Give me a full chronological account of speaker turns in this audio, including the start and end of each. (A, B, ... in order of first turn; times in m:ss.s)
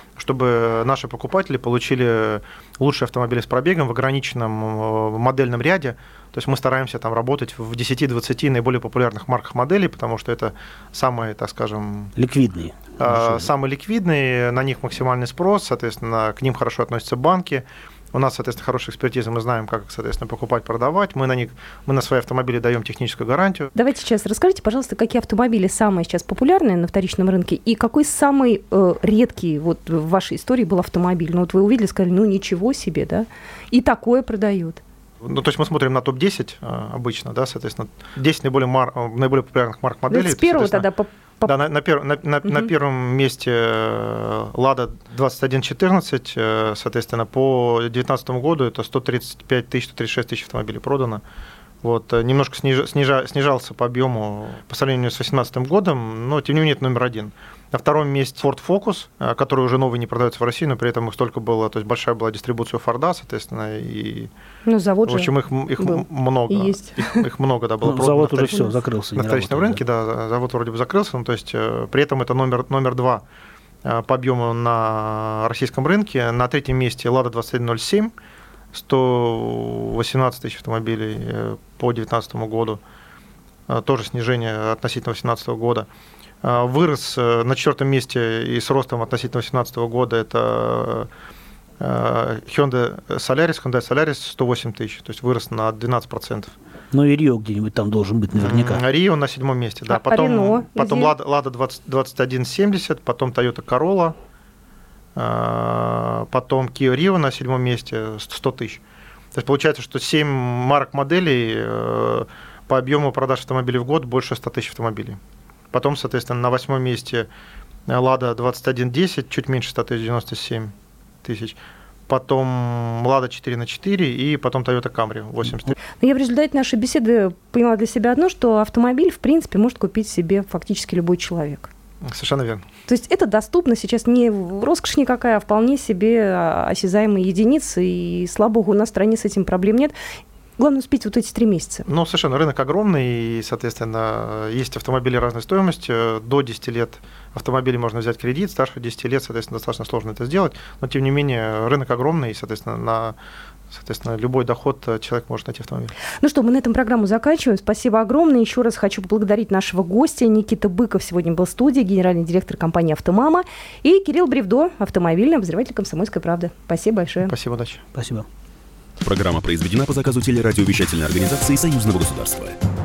0:00.2-0:12.1 A
0:12.2-0:13.5 B
0:13.0-0:23.7 A
0:23.7-0:34.8 C
0:35.2-0:40.8 A
0:40.1-0:41.5 C
0:41.4-0:51.2 A
0:42.4-0:42.7 C
0:51.8-1:04.3 A
1:04.6-1:07.2 C
1:05.1-1:13.2 A
1:07.8-1:09.8 B
1:13.8-1:18.1 A
1:18.7-1:22.8 A
1:23.7-1:25.9 A
1:26.4-1:31.1 A
1:31.8-1:36.5 A
1:36.9-1:38.8 B
1:38.4-1:44.2 A
1:39.9-1:41.1 C
1:45.2-1:48.8 A
1:49.3-1:55.2 A
1:55.7-1:57.3 A
1:57.9-2:00.7 A
2:01.2-2:05.7 A
2:06.0-2:11.7 C
2:12.0-2:12.6 A
2:12.9-2:19.9 C
2:20.6-2:21.8 C
2:21.9-2:33.2 A
2:33.7-2:35.9 A
2:36.2-2:47.3 C
2:47.2-2:47.8 A
2:47.9-2:48.3 B
2:49.0-2:52.6 D